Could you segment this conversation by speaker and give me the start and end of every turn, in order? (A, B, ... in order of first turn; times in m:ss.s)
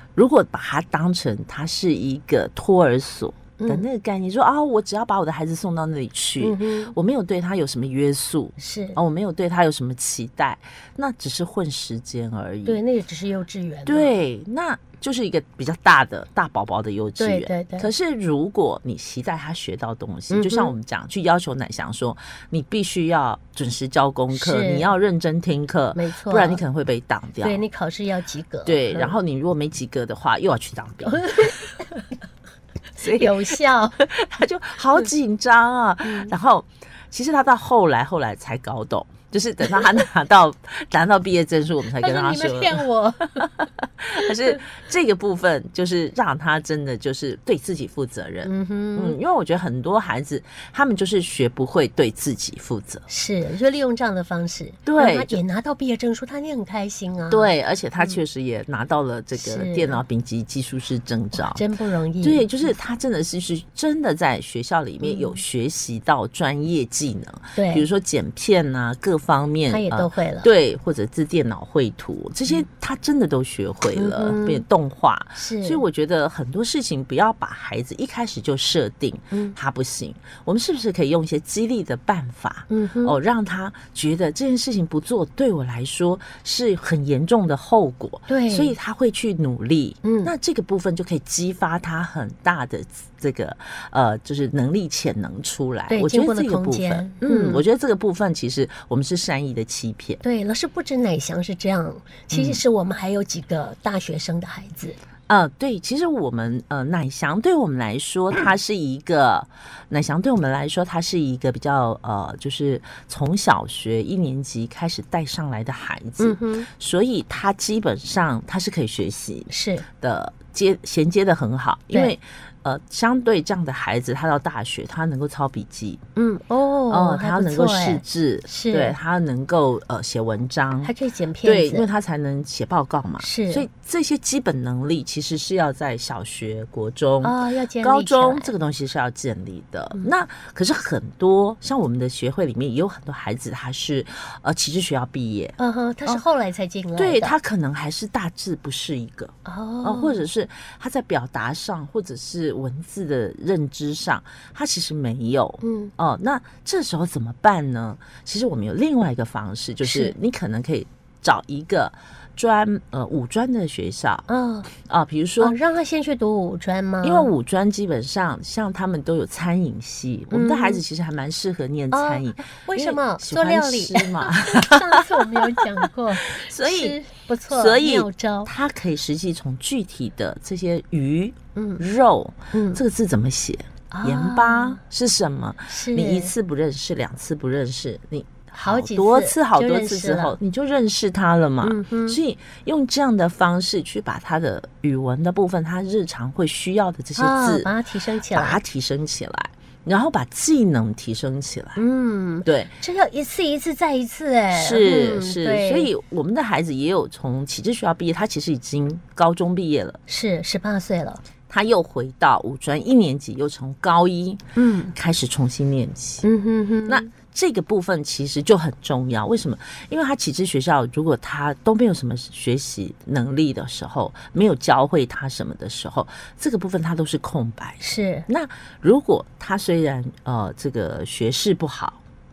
0:00.2-0:12.8 A
0:03.6-0:03.8 B
0:06.4-0:06.9 B
0:08.6-0:09.0 B
0:12.7-0:14.1 B
0:13.9-0:27.6 A
0:17.2-0:17.9 B
0:20.3-0:20.8 B
0:24.3-0:24.9 B
0:26.0-0:26.6 B
0:27.4-0:29.1 B
0:28.6-0:31.7 A
0:31.1-0:32.1 B
0:33.0-0:42.8 A
0:33.1-0:34.0 B
0:36.0-0:36.3 B
0:42.0-0:43.5 B
0:43.4-0:53.1 A
0:48.4-0:49.2 B
0:53.1-0:58.2 B
0:54.9-0:55.4 A
0:57.3-1:01.6 A
0:59.4-1:00.0 B
1:01.4-1:02.5 B
1:02.2-1:40.2 A
1:05.0-1:05.4 B
1:07.6-1:07.9 B
1:09.7-1:10.5 B
1:14.0-1:14.6 B
1:15.4-1:15.8 B
1:22.7-1:23.2 B
1:28.3-1:28.8 B
1:30.0-1:30.3 B
1:35.9-1:37.6 B
1:40.2-1:45.0 B
1:42.3-1:42.6 A
1:45.3-1:59.5 A
1:56.2-1:56.7 B
1:59.5-1:59.8 B
2:00.0-2:06.0 A
2:06.2-2:09.0 B
2:06.9-2:10.9 A
2:10.8-2:11.9 B
2:11.4-2:26.2 A
2:13.2-2:13.7 B
2:17.2-2:18.5 B
2:25.6-2:27.3 B
2:27.0-2:44.3 A
2:29.5-2:30.2 B
2:35.6-2:35.9 B
2:39.8-2:40.1 B
2:44.3-2:44.7 B
2:44.8-2:45.6 A
2:45.4-2:47.3 B
2:47.0-2:57.0 A
2:50.3-2:50.8 B
2:51.9-2:58.5 B
2:57.5-3:17.7 A
3:01.6-3:01.9 B
3:02.5-3:02.8 B
3:03.9-3:04.8 B
3:05.7-3:06.3 B
3:08.6-3:10.4 B
3:11.6-3:12.2 B
3:17.2-3:18.6 B
3:18.3-3:21.8 A
3:21.8-3:25.9 B
3:22.4-3:22.7 A
3:24.5-3:30.0 A
3:30.1-3:31.2 B
3:31.5-3:36.3 A
3:34.6-3:34.9 B
3:36.2-3:37.1 B
3:36.9-3:52.0 A
3:47.8-3:48.3 B